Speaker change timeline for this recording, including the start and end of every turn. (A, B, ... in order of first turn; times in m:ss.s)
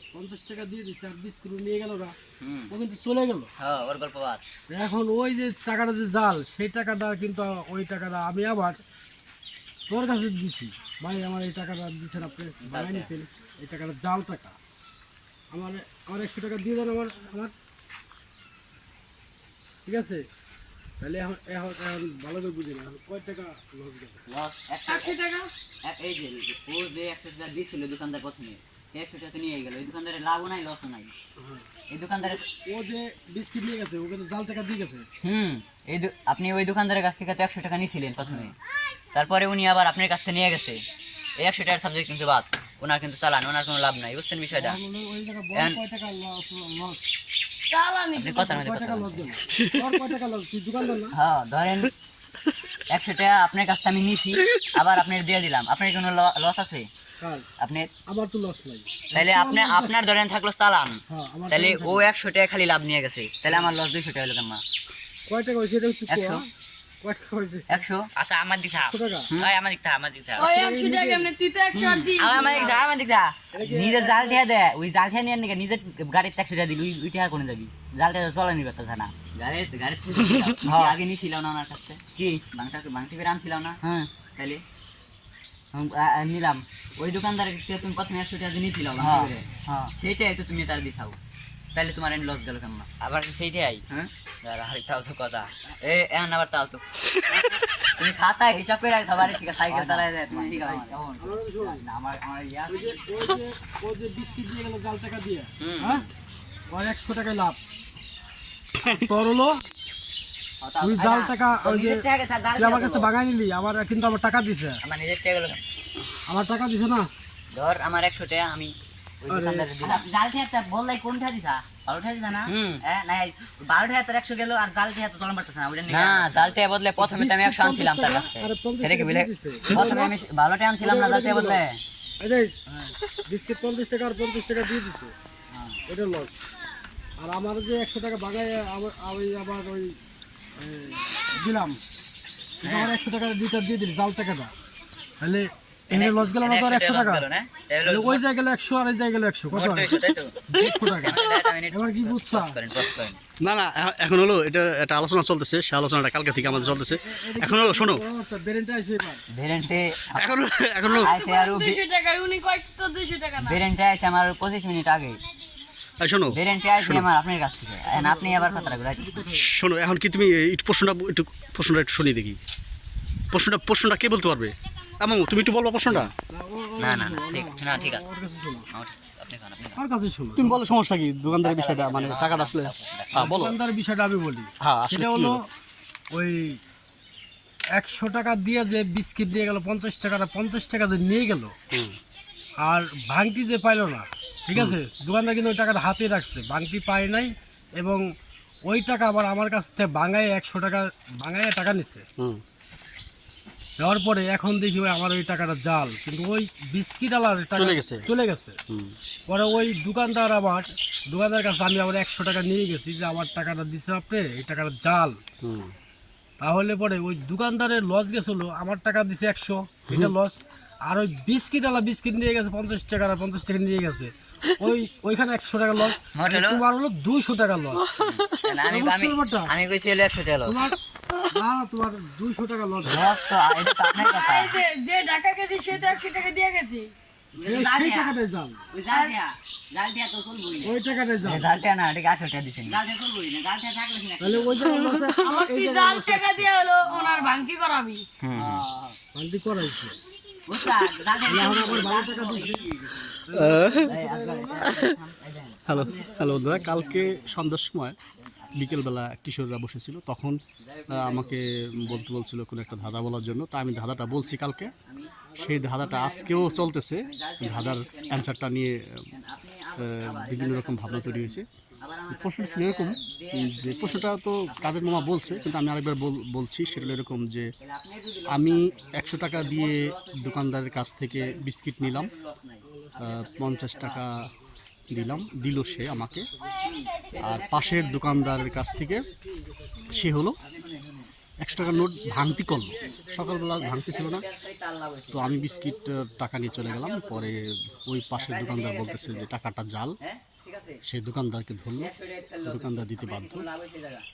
0:00.1-0:02.2 A
0:02.4-0:02.7 B
0:02.7-0:03.5 A
0:03.6-0:04.4 B
0:04.7-0:08.8 A
0:09.9-0:14.6 A
0:12.6-0:13.1 B
0:15.5-0:17.5 A
0:19.9-0:20.2 A
0:21.0-0:24.2 A
0:24.3-0:25.2 B
0:24.9-0:25.5 C
0:25.8-0:31.1 B
0:31.4-0:31.7 A
0:31.9-0:32.5 B
0:32.2-0:35.1 A
0:35.2-0:38.6 B
0:38.2-0:38.5 A
0:39.1-0:40.8 B
0:41.4-0:44.8 B
0:44.5-0:47.0 A
0:47.7-0:48.6 C
0:48.2-0:49.3 B
0:48.4-0:51.2 A
0:49.6-0:50.0 D
0:51.1-0:51.9 B
0:52.9-0:56.9 B
0:57.2-0:57.5 A
0:57.6-0:57.9 B
0:58.1-0:59.9 A
0:59.1-1:04.6 B
1:01.1-1:02.1 A
1:03.5-1:03.8 A
1:05.3-1:06.5 A
1:06.1-1:06.4 B
1:07.0-1:07.8 A
1:07.7-1:08.1 B
1:08.2-1:10.5 E
1:08.8-1:09.3 A
1:10.4-1:12.8 C
1:10.4-1:11.3 A
1:11.7-1:12.1 B
1:12.1-1:19.1 E
1:12.4-1:12.8 A
1:13.5-1:14.4 A
1:19.4-1:24.6 B
1:20.6-1:21.0 E
1:22.2-1:22.4 E
1:25.7-1:31.2 B
1:29.0-1:29.9 E
1:31.8-1:32.9 B
1:33.0-1:33.8 E
1:33.9-1:36.8 B
1:37.3-1:37.6 A
1:37.8-1:41.0 B
1:39.2-1:43.0 E
1:41.2-1:41.8 A
1:42.7-1:46.1 A
1:45.6-1:46.1 B
1:46.7-1:47.6 A
1:48.9-1:49.6 A
1:50.6-1:51.0 B
1:50.8-1:54.8 A
1:51.0-1:53.1 E
1:54.8-1:55.6 B
1:56.3-1:57.1 A
1:57.5-2:00.1 B
1:59.3-1:59.7 A
1:59.8-2:06.6 E
2:02.4-2:02.8 B
2:05.9-2:11.8 B
2:07.0-2:10.2 A
2:10.8-2:11.6 A
2:12.2-2:12.6 A
2:13.2-2:15.1 A
2:15.5-2:15.8 B
2:15.9-2:16.4 A
2:17.2-2:20.0 A
2:20.6-2:21.8 A
2:22.6-2:24.5 A
2:22.6-2:22.9 B
2:25.2-2:27.3 A
2:25.9-2:28.2 B
2:27.8-2:32.6 A
2:29.5-2:30.4 B
2:31.0-2:33.2 B
2:33.4-2:38.0 D
2:36.4-2:39.2 A
2:39.3-2:40.4 B
2:40.2-2:41.1 D
2:40.9-2:43.6 C
2:41.0-2:41.8 B
2:43.4-2:45.2 B
2:46.0-2:47.1 D
2:46.3-2:49.3 B
2:47.8-2:49.5 A
2:49.3-2:52.4 D
2:53.3-2:56.1 D
2:56.3-2:58.7 A
2:56.8-2:58.0 B
2:58.7-2:59.8 B
2:59.8-3:00.6 A
3:00.4-3:03.6 D
3:01.3-3:03.1 B
3:03.2-3:05.4 A
3:04.6-3:05.4 D
3:06.1-3:06.6 A
3:07.8-3:11.6 A
3:11.7-3:12.0 D
3:12.6-3:18.1 A
3:18.7-3:22.0 A
3:23.8-3:28.6 A
3:27.6-3:28.1 D
3:28.7-3:29.0 D
3:29.3-3:35.2 A
3:35.4-3:35.7 D
3:36.4-3:47.9 A
3:39.9-3:40.1 D
3:46.1-3:46.6 B
3:48.0-3:50.6 B
3:48.7-3:49.5 A
3:50.4-3:53.1 A
3:52.9-3:54.6 B
3:53.9-3:56.9 C
3:57.4-3:58.2 E
3:57.4-3:58.7 A
3:58.7-4:00.8 E
3:58.9-3:59.1 C
4:00.6-4:01.5 A
4:01.2-4:02.8 B
4:02.6-4:04.8 E
4:04.2-4:06.5 A
4:05.2-4:08.0 C
4:06.8-4:07.4 E
4:08.2-4:08.6 B
4:08.3-4:09.0 E
4:09.1-4:10.0 A
4:10.5-4:13.2 E
4:11.3-4:14.8 A
4:13.3-4:14.0 D
4:13.9-4:15.9 B
4:14.6-4:15.0 D
4:15.7-4:18.0 D
4:15.7-4:17.4 E
4:18.2-4:18.9 B
4:18.6-4:24.7 D
4:20.6-4:22.1 B
4:22.7-4:23.0 B
4:24.1-4:28.3 B
4:25.2-4:26.5 A
4:25.4-4:29.1 D
4:29.1-4:35.8 B
4:29.8-4:31.5 D
4:32.1-4:37.5 D
4:37.6-4:44.0 B
4:38.3-4:42.1 D
4:42.6-4:43.2 A
4:43.0-4:44.3 D
4:44.2-4:47.1 A
4:44.9-4:46.3 D
4:46.6-4:48.2 B
4:47.2-4:49.1 D
4:47.9-4:50.1 A
4:49.8-4:51.1 B
4:49.9-4:50.4 D
4:51.4-4:54.3 D
4:51.5-4:54.0 A
4:53.6-4:55.4 B
4:55.1-5:00.0 D
4:55.1-4:56.4 A
4:56.5-4:57.4 B
4:58.1-4:59.3 B
5:00.0-5:00.8 B
5:00.8-5:01.9 D
5:01.8-5:04.1 B
5:02.4-5:03.5 D